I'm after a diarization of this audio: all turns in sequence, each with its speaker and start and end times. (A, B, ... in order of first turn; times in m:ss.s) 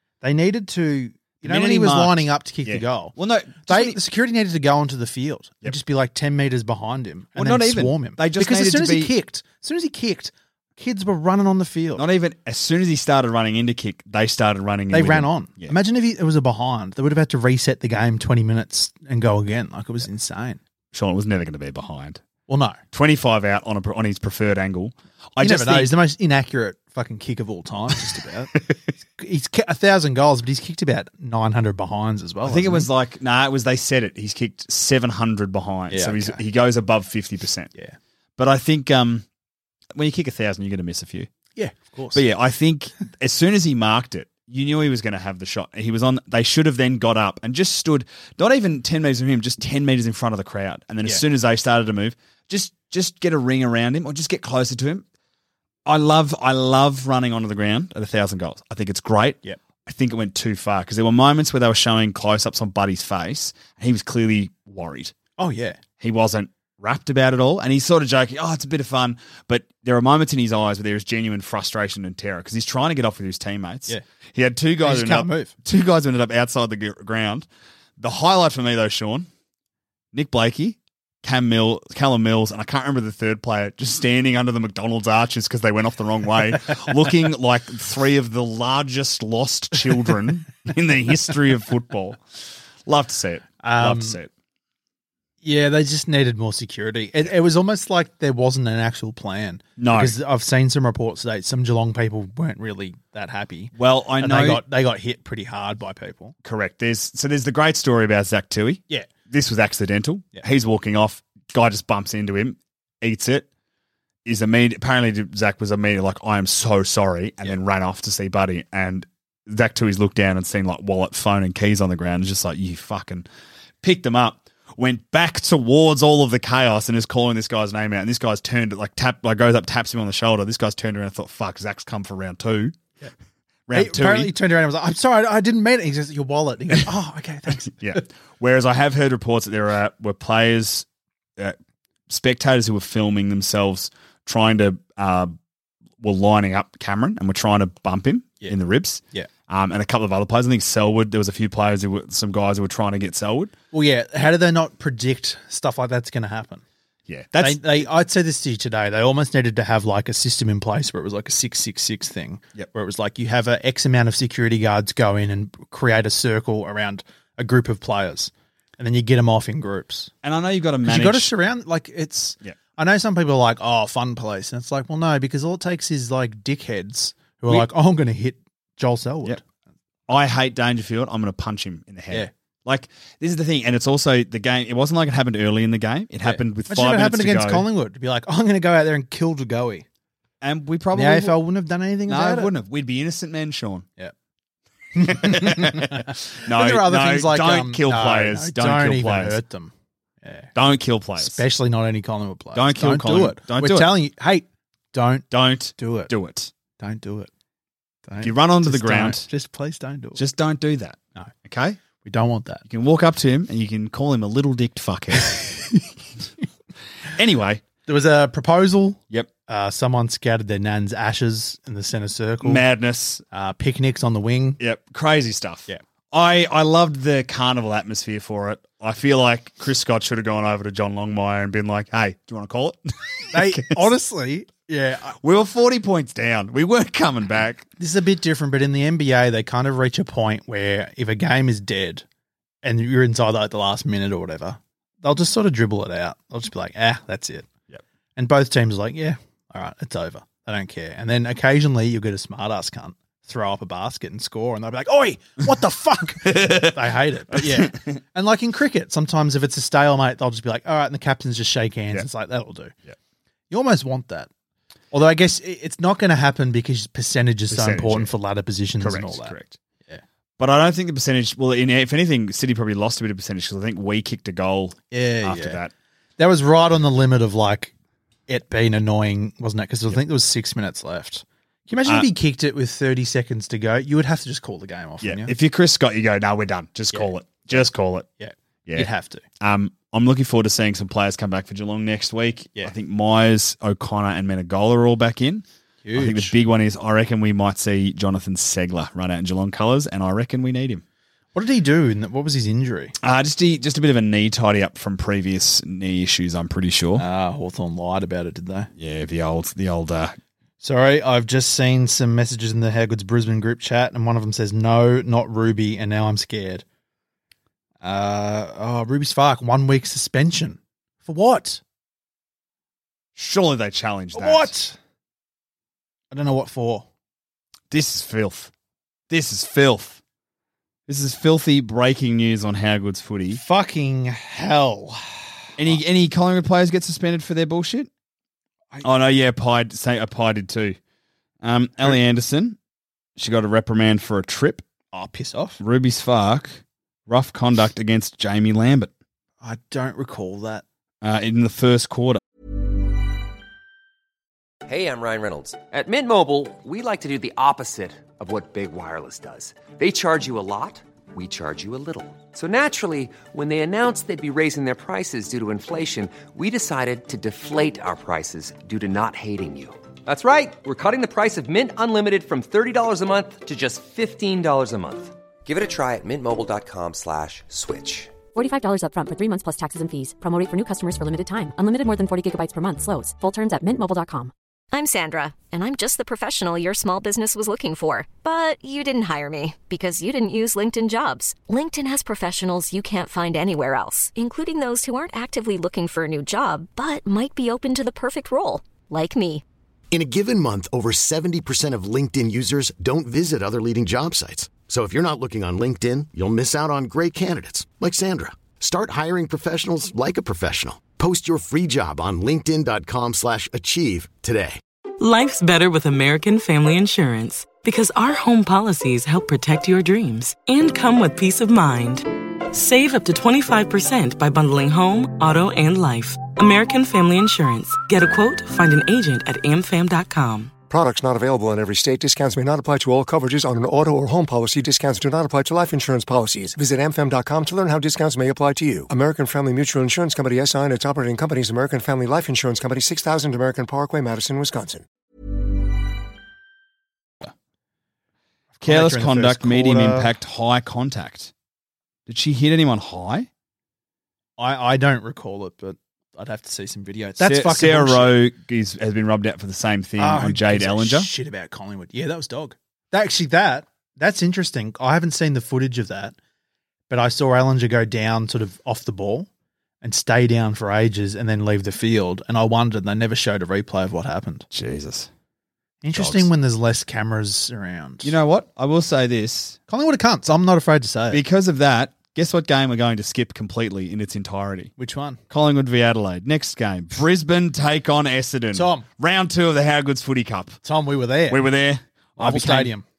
0:00.2-0:03.1 A
0:01.4-0:04.0 B
0:03.6-0:12.0 A
0:07.4-0:09.1 B
0:12.0-0:15.7 B
0:14.9-0:20.6 A
0:20.9-0:22.2 B
0:22.5-0:22.8 A
0:22.9-0:26.0 B
0:25.4-0:32.9 A
0:32.4-0:37.7 B
0:35.9-0:36.4 A
0:38.4-0:39.2 B
0:39.9-0:41.3 B
0:41.6-0:42.2 A
0:42.1-0:55.0 B
0:55.8-1:05.1 B
1:05.4-1:05.8 A
1:06.0-1:17.5 B
1:14.8-1:15.5 A
1:18.0-1:19.3 B
1:20.1-1:32.2 B
1:32.8-1:34.3 B
1:33.6-1:34.2 A
1:35.4-1:46.4 A
1:39.8-1:40.1 B
1:43.8-1:44.6 B
1:46.4-1:53.5 B
1:54.2-2:03.3 B
2:03.8-2:12.8 B
2:13.7-2:14.3 B
2:13.7-2:18.0 A
2:17.7-2:20.8 B
2:22.1-2:25.3 B
2:26.0-2:33.5 B
2:33.7-2:36.6 A
2:37.1-2:37.8 B
2:37.4-2:50.1 A
2:50.2-2:51.3 B
2:50.8-2:59.4 A
3:00.1-3:07.7 B
3:06.2-3:09.8 A
3:10.4-3:11.4 B
3:10.9-3:12.5 A
3:12.1-3:13.8 B
3:14.9-3:20.5 A
3:15.0-3:19.4 B
3:20.5-3:21.4 B
3:21.2-3:26.1 A
3:22.5-3:23.9 B
3:25.3-3:26.5 B
3:26.8-3:27.3 A
3:28.1-3:30.2 A
3:28.2-3:29.2 B
3:30.2-3:31.8 B
3:32.0-3:32.6 A
3:32.7-3:35.6 B
3:37.1-3:37.6 B
3:37.8-3:42.6 A
3:42.4-3:43.2 B
3:43.3-3:44.6 A
3:44.6-3:53.9 B
3:53.3-3:55.2 A
3:55.2-3:57.7 B
3:57.8-4:02.0 A
4:02.6-4:07.5 A
4:08.2-4:22.7 A
4:16.2-4:16.7 B
4:17.3-4:18.0 B
4:23.5-4:24.3 A
4:24.9-4:30.0 A
4:27.5-4:28.1 B
4:28.8-4:29.6 B
4:30.4-4:35.7 B
4:34.9-4:35.6 A
4:36.2-4:37.7 A
4:38.3-4:45.3 A
4:45.0-4:48.1 B
4:46.9-4:47.6 A
4:48.2-4:49.2 A
4:49.4-5:00.8 B
4:55.8-4:56.3 A
5:01.3-5:02.9 A
5:03.0-5:07.0 B
5:07.0-5:08.7 A
5:08.8-5:10.2 B
5:10.6-5:16.6 A
5:17.8-5:21.6 A
5:23.1-5:24.5 B
5:24.1-5:24.8 A
5:26.1-5:26.8 A
5:27.7-5:28.5 B
5:29.1-5:30.0 B
5:30.9-5:33.4 B
5:33.3-5:35.8 A
5:35.6-5:37.9 B
5:38.8-5:40.8 B
5:41.4-5:42.6 B
5:43.2-5:44.6 B
5:44.9-5:45.6 A
5:45.6-5:48.9 B
5:49.4-5:50.6 A
5:51.0-5:52.2 B
5:54.7-6:18.1 C
6:18.3-6:24.3 D
6:24.7-6:39.4 E
6:39.9-6:54.6 F
6:55.0-7:10.5 G
7:10.7-7:24.8 H
7:28.6-7:30.1 A
7:28.6-7:31.3 B
7:32.1-7:33.3 B
7:34.4-7:38.2 A
7:37.2-7:41.1 B
7:40.0-7:46.1 A
7:46.9-7:49.3 A
7:49.8-7:54.5 A
7:54.5-7:55.1 B
7:55.8-7:58.1 A
7:55.9-7:56.3 B
7:58.0-7:59.6 B
7:59.7-8:01.2 A
8:01.1-8:04.7 B
8:04.8-8:05.2 A
8:05.3-8:10.6 B
8:08.5-8:08.8 A
8:10.6-8:11.4 A
8:11.3-8:12.7 B
8:12.2-8:12.8 A